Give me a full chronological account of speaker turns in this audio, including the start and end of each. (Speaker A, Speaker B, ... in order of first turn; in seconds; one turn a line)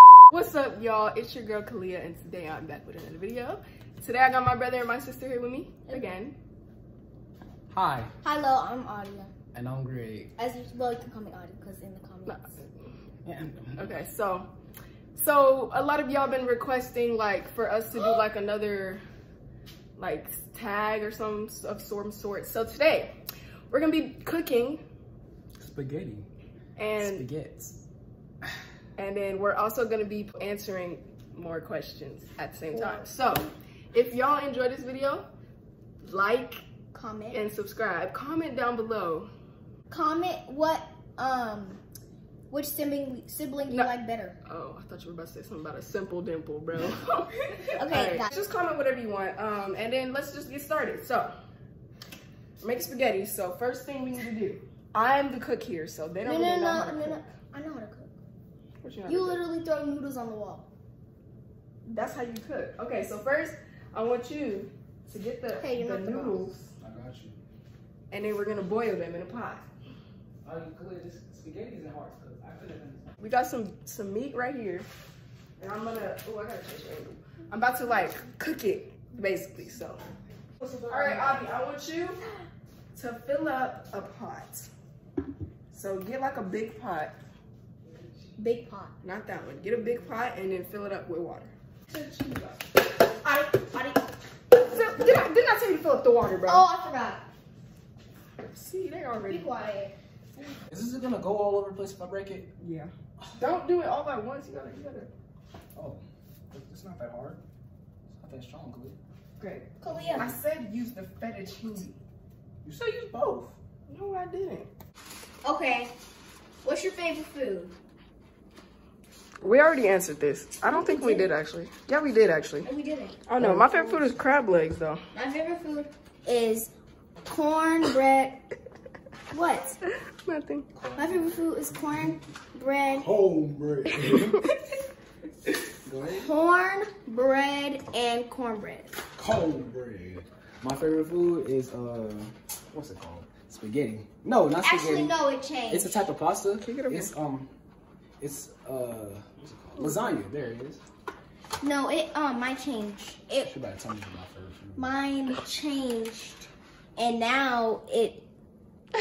Speaker A: 0.3-6.3
Speaker B: 7.7-8.1
Speaker C: 8.2-9.3
Speaker B: 9.5-10.3
Speaker C: 10.4-12.6
Speaker A: 12.2-12.9
Speaker B: 13.2-13.9
Speaker A: 13.8-14.5
Speaker A: 15.1-19.0
Speaker A: 20.0-23.1
Speaker A: 23.7-24.8
Speaker B: 25.6-26.3
Speaker A: 26.8-27.3
Speaker B: 27.0-27.8
Speaker A: 29.0-35.3
Speaker C: 32.7-33.0
Speaker A: 36.0-36.6
Speaker C: 36.9-37.4
Speaker A: 37.3-39.3
Speaker C: 39.9-41.8
Speaker C: 42.5-44.4
Speaker A: 43.7-51.3
Speaker C: 47.8-48.3
Speaker A: 52.6-57.2
Speaker C: 56.2-58.1
Speaker A: 58.8-59.4
Speaker C: 59.0-60.7
Speaker A: 61.9-66.7
Speaker C: 65.5-66.5
Speaker B: 66.8-67.4
Speaker A: 68.1-69.7
Speaker B: 70.4-73.1
Speaker A: 73.2-74.9
Speaker A: 75.6-80.1
Speaker B: 80.6-81.4
Speaker A: 80.9-82.2
Speaker A: 82.9-84.7
Speaker A: 85.7-87.1
Speaker C: 88.4-88.9
Speaker A: 89.0-91.5
Speaker C: 91.9-92.5
Speaker C: 93.2-94.0
Speaker A: 94.5-96.7
Speaker C: 96.4-97.2
Speaker A: 98.4-99.5
Speaker C: 99.2-99.9
Speaker B: 100.7-102.5
Speaker A: 102.6-105.1
Speaker B: 105.7-107.4
Speaker B: 108.1-109.0
Speaker A: 109.4-112.0
Speaker C: 109.8-110.3
Speaker B: 109.9-110.2
Speaker B: 112.6-113.5
Speaker A: 113.9-114.7
Speaker C: 115.4-115.9
Speaker C: 116.6-117.7
Speaker A: 119.4-122.7
Speaker C: 120.7-121.3
Speaker C: 122.6-123.2
Speaker A: 123.3-125.0
Speaker B: 123.4-124.0
Speaker C: 125.1-126.7
Speaker C: 127.3-128.4
Speaker C: 129.3-129.8
Speaker A: 129.6-130.7
Speaker B: 130.7-131.9
Speaker C: 130.9-133.1
Speaker B: 132.9-134.4
Speaker B: 135.7-136.3
Speaker C: 136.1-139.0
Speaker B: 139.2-145.2
Speaker C: 144.6-146.0
Speaker B: 145.7-147.5
Speaker A: 146.6-147.1
Speaker B: 148.2-150.8
Speaker C: 151.6-153.5
Speaker B: 153.4-154.9
Speaker C: 154.8-156.4
Speaker C: 156.9-158.2